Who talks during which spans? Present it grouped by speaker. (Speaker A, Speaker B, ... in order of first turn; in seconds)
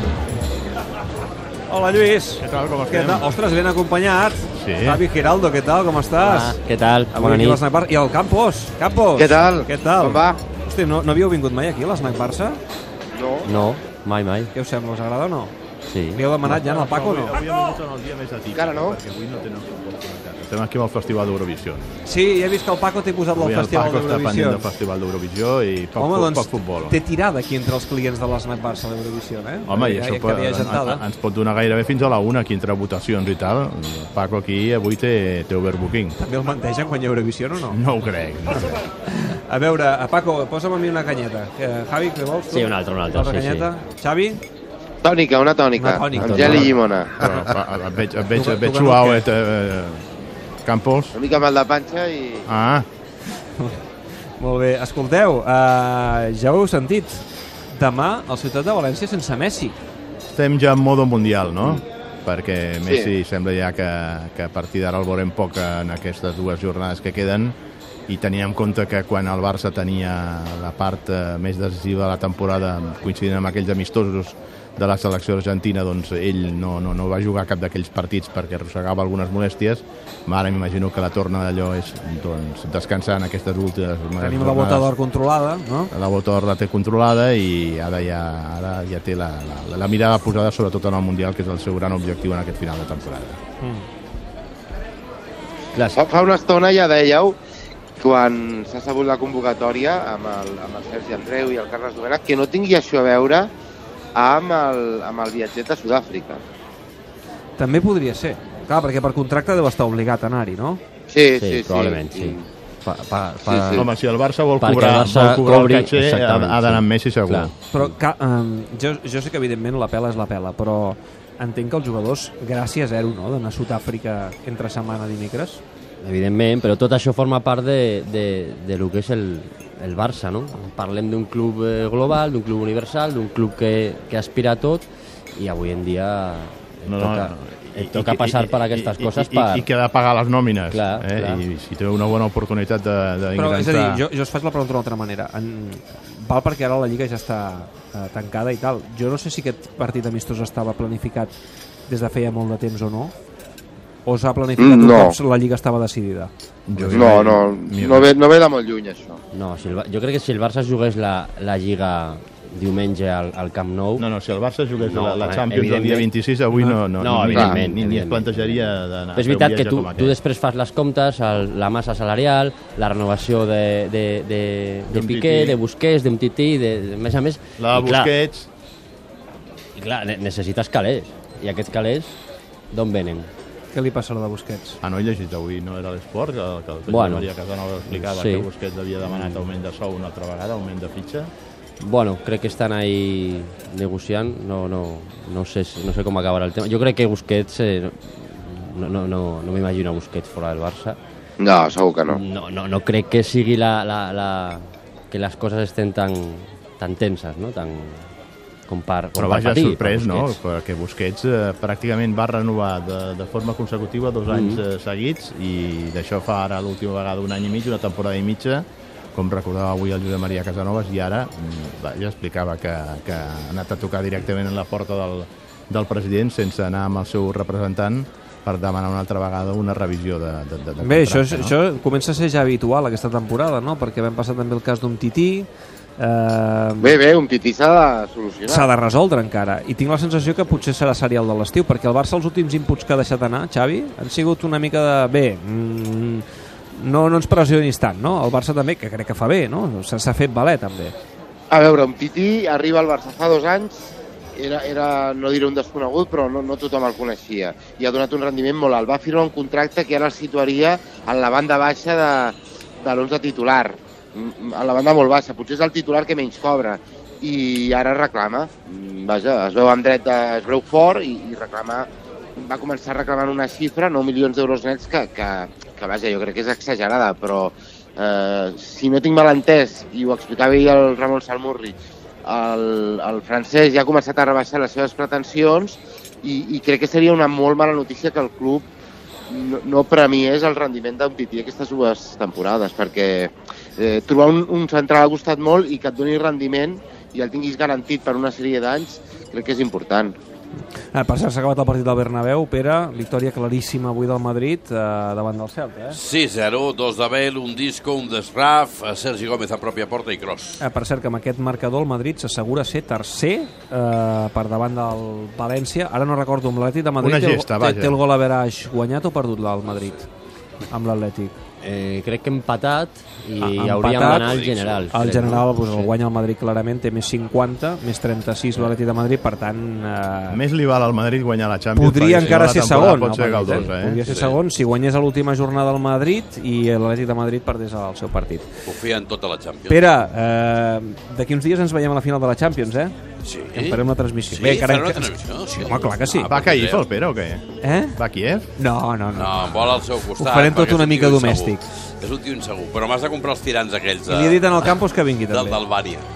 Speaker A: 1.7-6.6, 7.1-12.6, 14.5-15.5, 16.1-17.5, 22.1-24.7, 26.0-31.0, 36.2-37.8, 38.6-44.4, 45.8-46.8, 48.3-49.3, 54.4-59.8, 84.2-85.9, 93.6-93.9, 107.6-110.8, 117.7-125.6, 143.3-151.3, 151.9-153.1, 154.1-156.3, 183.7-184.8, 230.8-237.0, 238.5-250.9, 300.9-306.0, 310.6-320.1, 320.7-321.4, 323.4-324.3, 324.9-330.4, 331.8-338.5, 339.7-342.9, 343.5-346.3, 347.6-348.0, 348.6-351.6, 354.1-355.6
Speaker B: 2.4-3.3, 4.6-5.0, 16.4-22.0, 23.3-27.0, 29.7-36.2, 37.7-38.8, 46.4-50.0, 50.6-51.2, 52.5-52.9, 60.4-67.5, 68.1-84.9, 85.9-93.4, 113.7-117.5, 136.9-144.0, 156.7-158.1, 164.0-170.2, 174.9-175.6, 177.6-178.5, 184.8-191.3, 209.2-231.6, 317.0-318.0, 330.3-334.0, 346.3-348.5
Speaker C: 6.2-7.6, 13.4-14.5, 15.9-16.2, 42.5-43.7, 46.1-46.7, 95.8-96.0, 111.4-113.9, 114.6-117.9, 126.0-139.7, 140.7-141.4, 156.8-157.1, 159.3-164.1, 164.8-166.1, 167.0-178.1, 179.8-182.2, 182.7-183.3, 186.9-187.3, 187.9-188.5, 189.1-189.5, 191.8-201.0, 202.1-208.1, 208.7-210.4, 214.3-214.6, 321.6-325.9
Speaker D: 9.2-10.4, 13.2-13.5, 18.5-19.0, 45.0-47.2, 51.1-52.5, 62.9-63.1, 95.9-97.4, 98.0-103.5, 104.2-106.4, 111.1-112.4, 113.5-113.9, 154.6-155.2, 156.9-159.2, 201.4-202.2, 236.8-238.7, 251.5-288.6, 289.3-300.1
Speaker E: 305.9-310.6, 323.8-325.0, 332.2-332.5, 334.0-334.4, 338.7-339.9, 343.2-343.8, 344.3-346.9, 349.1-354.8, 355.3-356.1